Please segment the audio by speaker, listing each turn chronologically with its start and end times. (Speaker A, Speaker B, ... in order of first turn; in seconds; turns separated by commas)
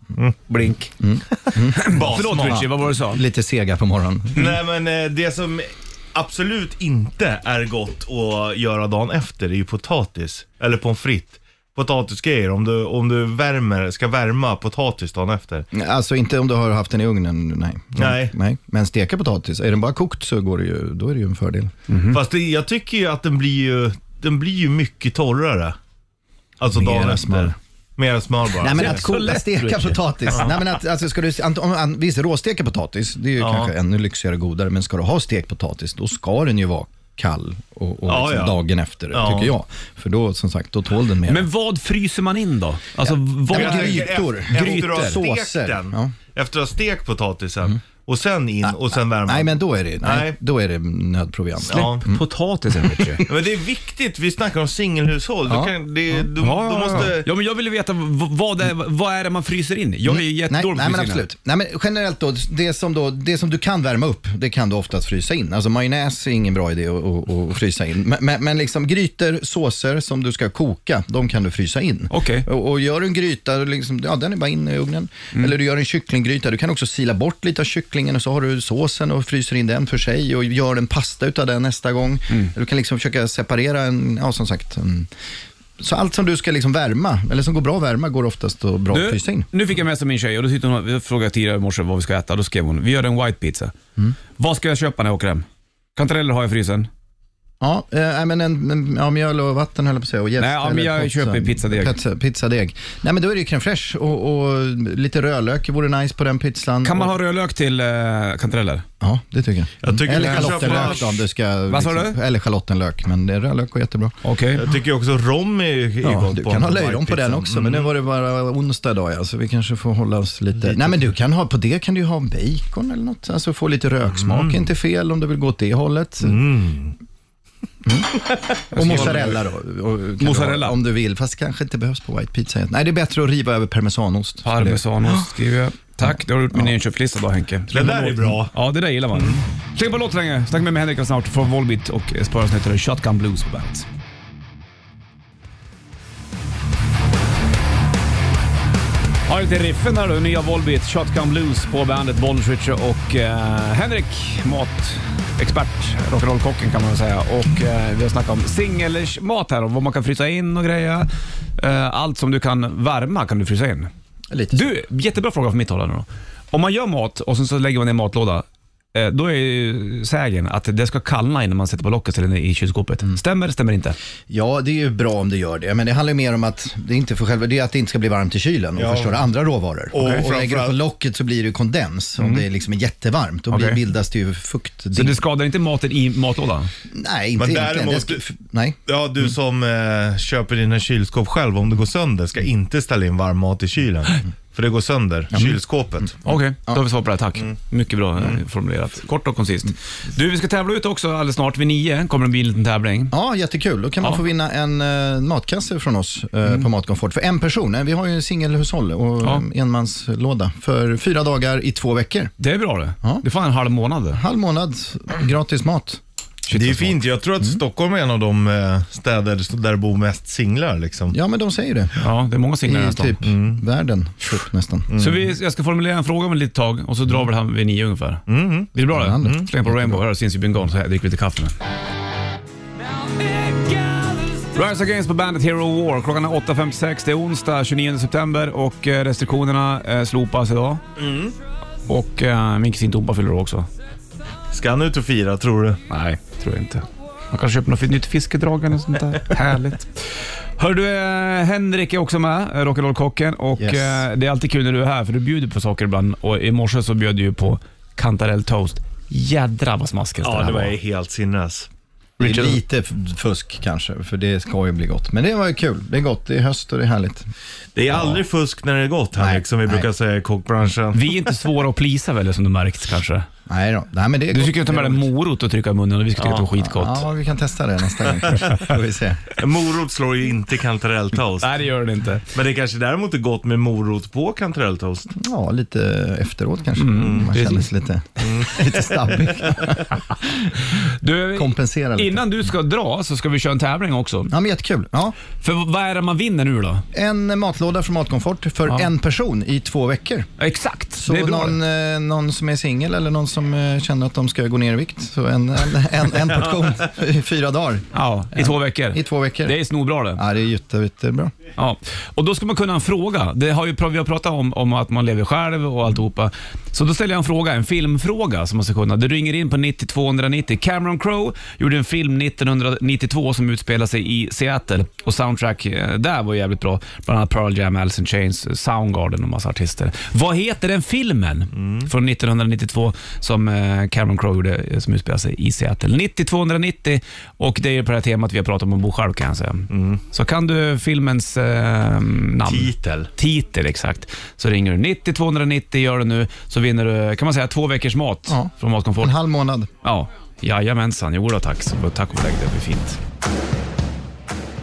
Speaker A: 0.5-0.9, Speaker B: 1.0-4.5, Speaker A: 1.7-3.2, Speaker C: 1.8-2.7, Speaker C: 4.3-15.7, Speaker B: 15.7-21.7, Speaker C: 17.9-18.3, Speaker A: 21.9-22.2, Speaker C: 22.1-25.8, Speaker C: 26.6-29.0, Speaker B: 26.7-27.6, Speaker B: 28.6-41.5, Speaker A: 28.7-30.4, Speaker C: 33.4-33.7, Speaker C: 38.1-38.6, Speaker C: 39.1-39.5, Speaker A: 41.3-45.2, Speaker B: 43.5-46.1, Speaker C: 43.5-50.4, Speaker B: 48.6-52.2, Speaker C: 51.7-52.0, Speaker A: 51.7-53.2, Speaker B: 52.8-53.3, Speaker C: 53.2-57.3, Speaker B: 55.5-55.7, Speaker A: 56.4-61.2, Speaker B: 60.0-85.1, Speaker A: 72.1-72.5, Speaker B: 85.8-89.5, Speaker A: 88.9-93.7, Speaker A: 94.4-96.9, Speaker B: 97.6-107.1, Speaker A: 100.4-101.9, Speaker A: 106.8-108.8, Speaker B: 109.0-114.2, Speaker C: 109.8-111.1, Speaker A: 110.1-111.1, Speaker A: 111.7-112.2, Speaker A: 114.2-114.6, Speaker C: 114.6-117.9, Speaker B: 116.0-126.4, Speaker C: 120.6-120.9, Speaker C: 124.2-124.6, Speaker C: 126.2-127.0, Speaker B: 127.8-135.2, Speaker C: 128.7-129.3, Speaker A: 128.7-129.3, Speaker A: 130.2-130.8, Speaker A: 134.4-143.8, Speaker C: 137.7-138.5, Speaker A: 149.3-163.9, Speaker B: 164.3-164.7, Speaker A: 164.5-174.0, Speaker B: 174.3-185.2, Speaker C: 178.8-179.2, Speaker C: 179.9-180.8, Speaker A: 180.0-180.2, Speaker A: 182.2-182.4, Speaker A: 183.5-183.8, Speaker A: 184.9-186.7, Speaker B: 186.9-188.8, Speaker C: 187.4-188.2, Speaker C: 188.9-196.2, Speaker A: 196.2-203.1, Speaker B: 203.1-212.3, Speaker A: 212.4-214.2, Speaker B: 214.1-216.0, Speaker A: 216.5-217.0, Speaker C: 216.5-221.1, Speaker B: 221.1-222.0, Speaker A: 222.0-223.2, Speaker B: 222.6-224.9, Speaker C: 223.2-223.6, Speaker C: 224.9-225.3, Speaker A: 224.9-228.2, Speaker C: 228.3-229.4, Speaker A: 228.7-231.5, Speaker B: 228.9-230.0, Speaker A: 233.0-240.8, Speaker C: 241.0-241.3, Speaker A: 241.9-243.7, Speaker C: 244.5-245.8, Speaker A: 245.9-260.8, Speaker B: 253.6-254.0, Speaker C: 260.2-261.7, Speaker A: 262.2-262.6, Speaker B: 262.2-267.3, Speaker C: 267.8-271.3, Speaker B: 269.1-269.9, Speaker A: 270.9-273.3, Speaker B: 273.5-275.1, Speaker A: 274.3-277.0, Speaker C: 276.2-276.5, Speaker B: 276.6-279.3, Speaker C: 279.4-281.6, Speaker A: 281.4-282.2, Speaker C: 282.3-285.1, Speaker B: 285.1-290.6, Speaker A: 286.8-287.7, Speaker C: 287.0-287.3, Speaker C: 288.2-289.2, Speaker A: 290.7-294.3, Speaker B: 291.3-292.2, Speaker B: 294.3-295.2, Speaker A: 295.4-296.9, Speaker B: 296.9-300.3, Speaker A: 300.4-301.6, Speaker B: 301.0-309.6, Speaker A: 307.9-310.2, Speaker B: 310.1-311.3, Speaker A: 311.6-349.2, Speaker C: 331.5-331.9, Speaker C: 339.7-340.0, Speaker C: 342.4-343.1, Speaker B: 348.3-349.7, Speaker A: 349.8-353.0